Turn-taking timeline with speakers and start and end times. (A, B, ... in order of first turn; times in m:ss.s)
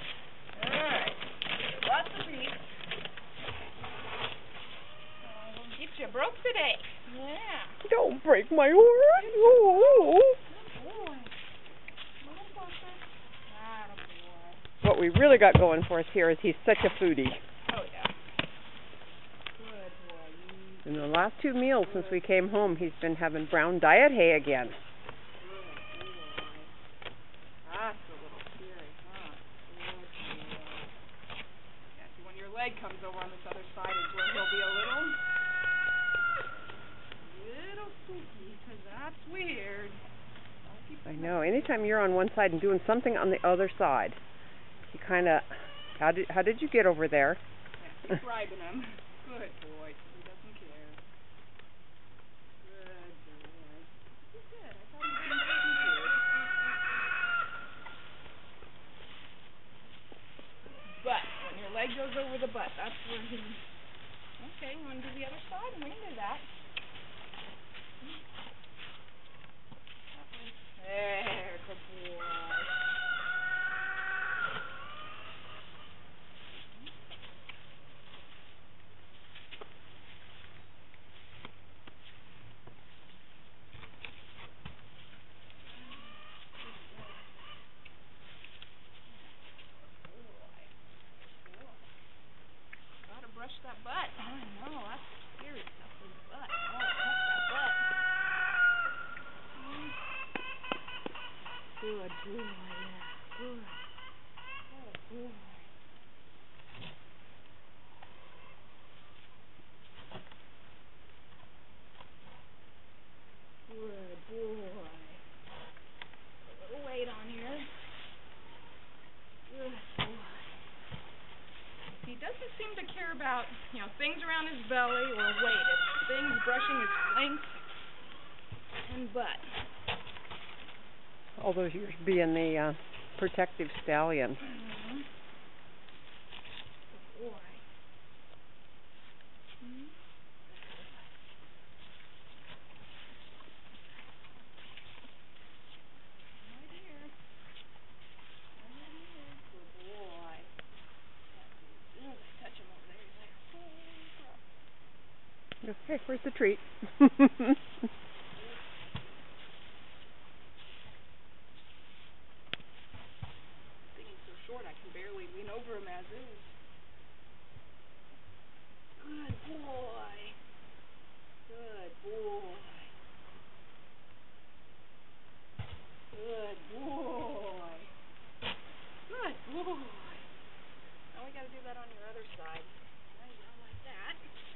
0:00.5-0:02.7 A
0:05.2-0:07.8 A
0:07.8-0:10.4 B
0:09.1-0:11.4 A
0:12.2-0:14.6 A
0:14.8-0:17.4 B
0:17.7-0:18.1 A
0:19.5-0:21.1 A
0:20.8-0:24.8 B
0:21.8-0:22.5 A
0:25.4-0:26.7 A
0:27.6-0:30.9 A
0:31.9-0:35.2 A
0:37.2-0:40.0 A
0:40.6-0:41.9 A
0:41.0-0:44.2 B
0:44.9-0:47.4 B
0:47.8-0:51.0 A
0:52.6-0:56.4 A
1:00.7-1:03.6 A
1:04.4-1:06.5 A
1:10.1-1:12.8 A
1:16.5-1:16.9 A
1:25.6-1:27.3 A
1:29.0-1:31.8 A
1:33.0-1:37.9 A
1:39.5-1:40.0 A
1:41.8-1:43.8 A
1:44.7-1:45.7 A
1:53.7-1:55.2 A
1:56.4-1:57.7 A
1:59.5-2:00.6 A
2:02.0-2:07.7 A
2:08.8-2:09.5 A
2:11.4-2:14.4 B
2:14.4-2:15.1 A
2:16.9-2:17.6 A
2:19.6-2:21.0 A
2:26.3-2:27.1 A
2:28.6-2:30.5 A
2:31.3-2:34.4 A
2:35.6-2:37.6 B
2:38.3-2:39.1 A
2:43.9-2:46.6 A
2:49.0-2:50.4 A
2:51.4-2:52.9 A
2:56.1-2:57.9 A
2:59.1-3:00.3 A
3:01.1-3:04.2 A